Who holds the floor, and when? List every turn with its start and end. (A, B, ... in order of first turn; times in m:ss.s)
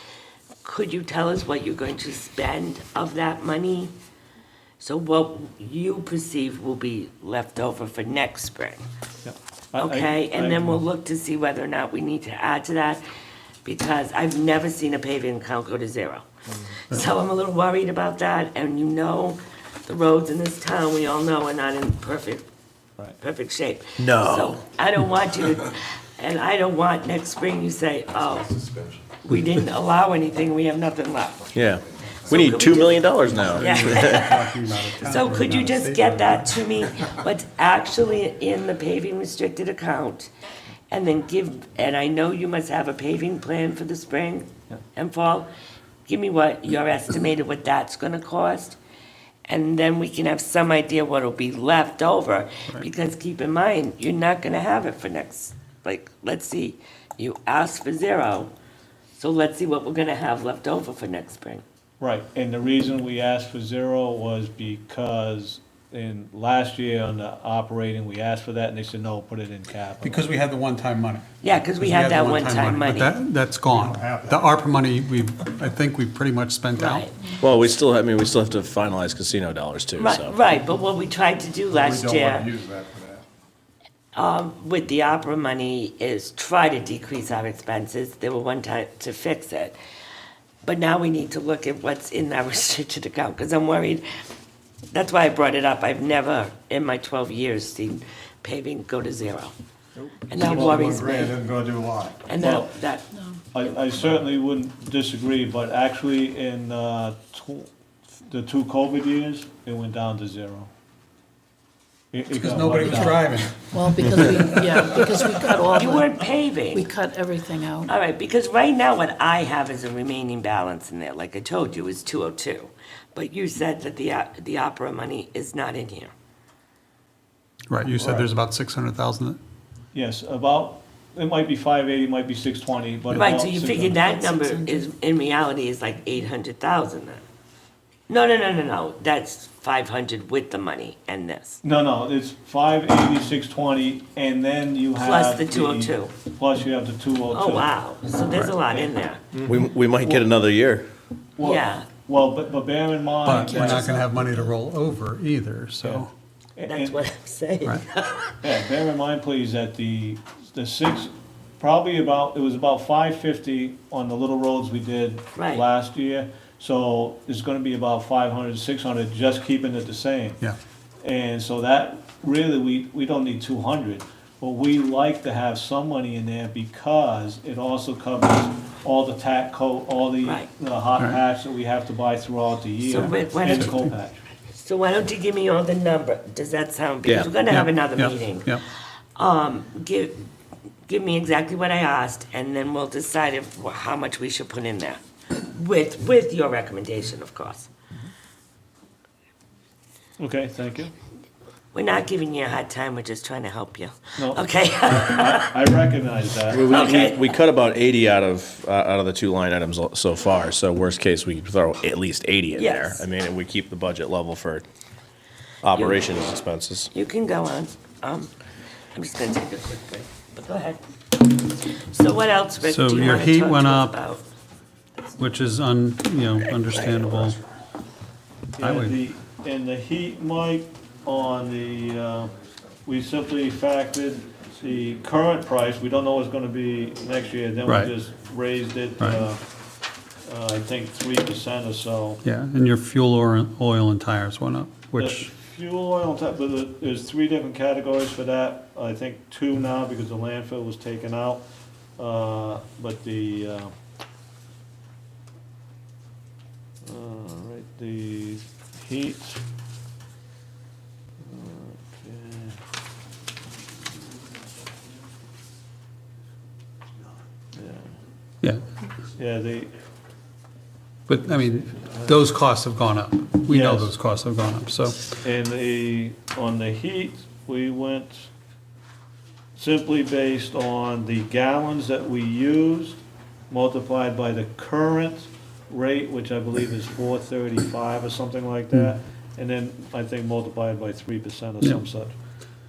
0:00.6-0:03.9 A
0:04.8-0:08.8 A
0:09.2-0:10.8 B
0:09.8-0:13.0 A
0:13.6-0:16.3 A
0:16.8-0:22.4 A
0:23.2-0:28.6 A
0:24.0-0:24.6 C
0:29.2-0:31.6 A
0:31.5-0:34.4 C
0:32.3-0:33.1 A
0:33.3-0:36.5 D
0:33.6-0:40.3 A
0:40.9-0:45.5 A
0:46.1-0:48.8 A
0:49.4-0:58.5 A
0:59.1-1:01.6 A
1:02.0-1:10.2 B
1:10.0-1:11.3 D
1:11.4-1:13.1 A
1:11.8-1:17.0 D
1:13.7-1:14.4 E
1:16.8-1:17.4 A
1:17.4-1:20.3 C
1:20.0-1:22.5 A
1:21.7-1:23.2 E
1:24.1-1:29.8 A
1:30.6-1:34.0 A
1:34.9-1:39.5 A
1:40.0-1:42.2 E
1:40.3-1:41.4 A
1:42.2-1:43.1 A
1:42.4-1:42.7 B
1:43.5-1:47.7 B
1:43.6-1:44.2 A
1:48.2-1:50.7 B
1:52.1-1:53.5 B
1:52.3-1:55.4 D
1:53.7-1:57.9 F
1:55.7-1:56.9 A
1:57.9-2:06.1 A
2:07.7-2:09.4 D
2:08.0-2:08.3 B
2:09.9-2:14.0 B
2:13.1-2:17.2 A
2:14.0-2:14.9 F
2:18.1-2:21.6 A
2:21.6-2:27.7 B
2:25.0-2:26.1 A
2:27.3-2:29.2 A
2:28.7-2:30.2 B
2:29.4-2:30.8 C
2:31.4-2:34.1 B
2:31.4-2:31.9 A
2:33.2-2:36.1 D
2:35.8-2:36.0 B
2:36.6-2:37.0 B
2:36.6-2:38.4 A
2:38.4-2:50.4 B
2:45.3-2:45.6 A
2:51.0-3:04.2 B
3:02.8-3:03.8 A
3:04.5-3:08.6 A
3:07.0-3:07.3 C
3:07.5-3:08.6 D
3:09.2-3:10.2 A
3:10.9-3:17.7 A
3:20.2-3:20.9 B
3:21.7-3:25.5 A
3:24.2-3:26.8 B
3:26.5-3:34.6 C
3:26.7-3:27.3 A
3:32.5-3:33.0 A
3:35.6-3:36.9 C
3:35.7-3:36.0 A
3:36.9-3:38.3 A
3:38.9-3:40.8 A
3:41.8-3:44.2 A
3:42.6-3:44.0 D
3:45.2-3:47.4 D
3:48.6-3:52.3 B
3:48.6-3:49.0 D
3:52.8-3:59.4 B
3:57.6-3:57.9 D
4:00.2-4:02.2 B
4:02.2-4:05.3 D
4:05.0-4:11.4 B
4:12.0-4:13.7 B
4:16.8-4:19.4 B
4:21.2-4:22.6 B
4:27.5-4:27.9 B
4:29.2-4:29.7 B
4:31.1-4:35.1 D
4:31.8-4:32.1 B
4:33.5-4:33.9 B
4:35.2-4:38.3 B
4:39.6-4:52.2 B